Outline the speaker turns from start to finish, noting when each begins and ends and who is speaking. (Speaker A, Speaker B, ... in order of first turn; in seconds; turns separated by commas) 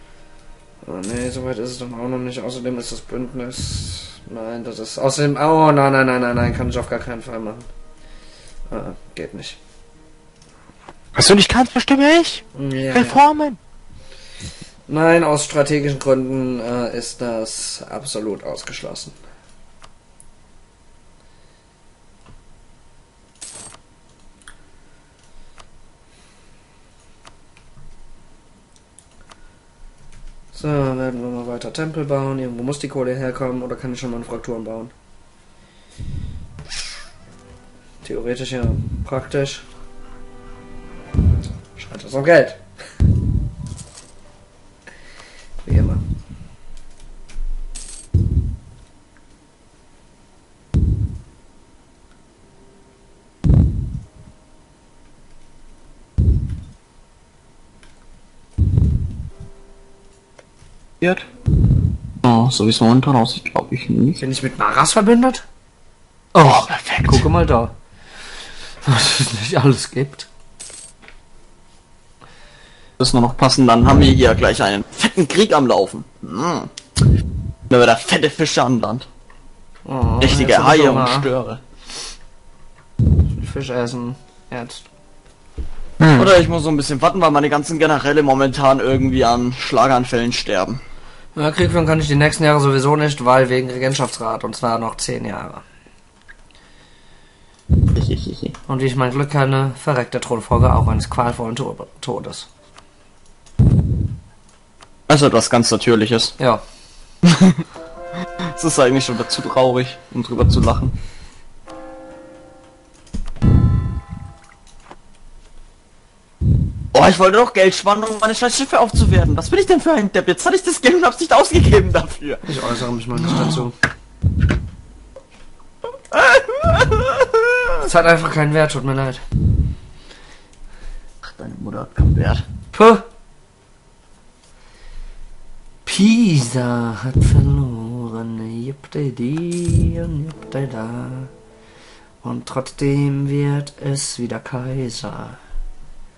Speaker A: 0.8-7.7, Speaker A: 8.7-9.6, Speaker B: 11.2-13.6, Speaker A: 12.5-13.2, Speaker A: 14.9-19.2, Speaker A: 30.5-34.9, Speaker A: 38.0-39.6, Speaker A: 41.8-42.6, Speaker A: 45.6-46.0, Speaker C: 61.0-61.2, Speaker C: 62.2-64.2, Speaker A: 64.2-65.4, Speaker A: 66.3-67.7, Speaker C: 66.4-67.3, Speaker A: 68.8-70.3, Speaker C: 73.0-76.7, Speaker C: 77.7-79.0, Speaker A: 79.8-81.3, Speaker C: 80.2-81.6, Speaker A: 83.3-84.9, Speaker B: 86.0-86.4, Speaker C: 86.2-90.8, Speaker A: 91.3-95.6, Speaker C: 97.9-98.5, Speaker A: 98.7-102.5, Speaker C: 105.1-106.3, Speaker C: 107.2-107.6, Speaker C: 108.5-110.9, Speaker C: 116.9-122.5, Speaker A: 122.5-123.7, Speaker C: 123.2-123.6, Speaker C: 126.1-127.7, Speaker A: 127.8-129.2, Speaker C: 131.2-132.4, Speaker A: 132.7-133.1, Speaker A: 135.8-141.3, Speaker A: 142.2-145.4